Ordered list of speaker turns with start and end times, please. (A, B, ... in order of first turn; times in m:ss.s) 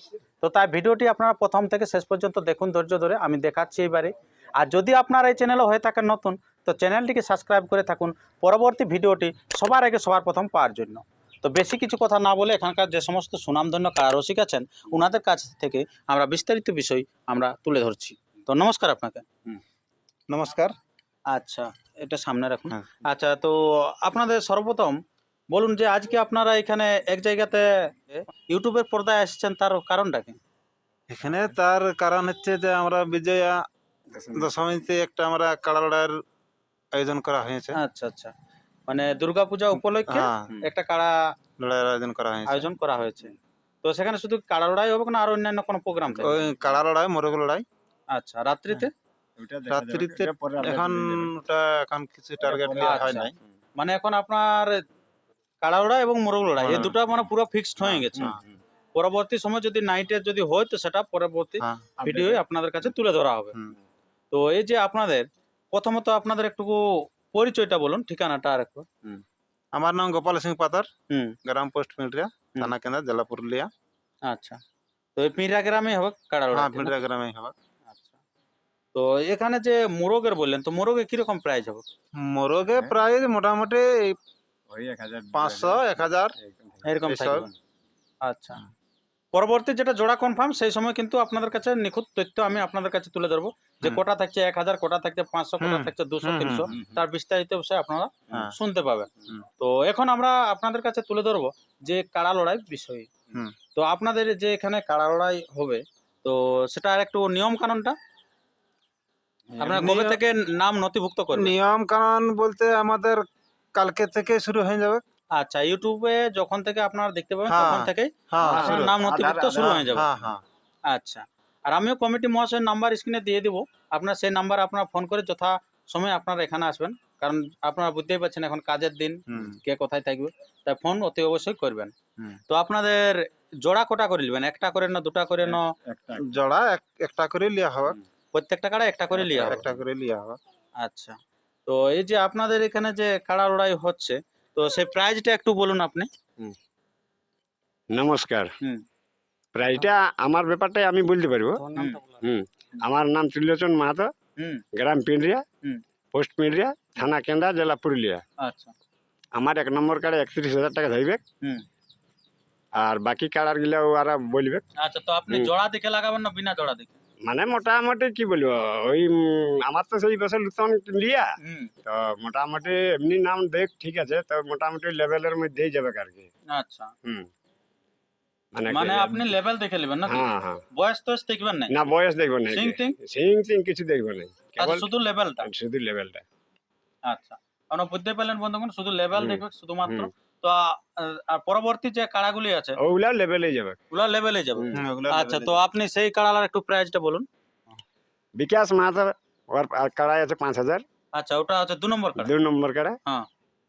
0:00.4-0:19.3 A
0:20.3-0:20.8 B
0:21.3-0:25.0 A
0:25.5-0:30.4 A
0:31.1-0:33.6 B
0:34.1-0:34.5 C
0:34.4-0:36.2 B
0:36.9-0:37.8 B
0:37.8-0:38.3 A
0:38.9-0:41.2 A
0:40.1-0:40.6 B
0:41.6-0:42.7 B
0:42.5-0:46.4 A
0:46.1-0:46.4 C
0:46.2-0:47.6 B
0:48.1-0:48.9 A
0:49.4-0:51.3 C
0:49.7-0:53.3 B
0:52.4-0:53.4 C
0:52.8-0:54.8 A
0:55.6-0:58.4 A
0:56.6-0:57.0 B
0:57.8-0:58.4 B
0:58.2-0:58.5 C
0:59.0-1:03.6 A
1:01.6-1:01.9 B
1:02.0-1:02.4 C
1:04.3-1:08.9 A
1:09.7-1:10.9 B
1:11.1-1:11.4 A
1:11.4-1:13.7 B
1:14.3-1:14.6 A
1:15.2-1:17.0 A
1:16.5-1:17.5 B
1:17.9-1:18.2 A
1:18.9-1:21.8 A
1:22.1-1:24.2 B
1:22.7-1:23.0 C
1:24.7-1:27.5 C
1:25.3-1:26.4 B
1:26.8-1:27.5 A
1:27.1-1:27.5 B
1:28.2-1:28.6 A
1:29.3-1:43.1 A
1:35.6-1:36.7 B
1:36.7-1:37.0 C
1:43.8-1:48.0 A
1:49.5-1:49.8 C
1:49.6-1:50.2 B
1:49.6-1:51.6 A
1:51.3-1:55.0 B
1:55.4-2:00.1 A
1:57.5-1:59.0 B
1:58.4-1:59.9 C
1:59.6-2:00.4 B
2:00.9-2:11.9 A
2:09.3-2:09.6 B
2:12.5-2:15.7 A
2:15.5-2:16.2 C
2:16.2-2:18.0 B
2:18.3-2:19.6 A
2:19.2-2:20.4 B
2:19.5-2:19.8 C
2:20.8-2:26.1 A
2:27.9-2:28.6 C
2:29.6-2:34.1 C
2:31.8-2:32.0 A
2:34.4-2:34.6 A
2:34.8-2:35.4 C
2:36.1-2:38.2 C
2:38.4-2:38.7 A
2:39.4-2:41.2 C
2:42.8-2:44.7 C
2:44.8-2:47.0 A
2:47.2-2:51.3 C
2:51.4-2:51.7 A
2:51.8-2:56.3 C
2:56.5-2:56.9 A
2:58.6-2:59.4 C
2:58.7-3:01.8 A
3:00.0-3:00.6 C
3:01.7-3:04.9 C
3:02.5-3:03.0 A
3:04.6-3:05.5 A
3:05.4-3:06.2 C
3:07.1-3:12.8 A
3:09.2-3:10.1 C
3:12.8-3:13.8 C
3:13.9-3:17.3 A
3:14.6-3:14.8 C
3:14.7-3:15.6 B
3:18.4-3:20.8 C
3:21.1-3:22.3 A
3:22.2-3:23.0 C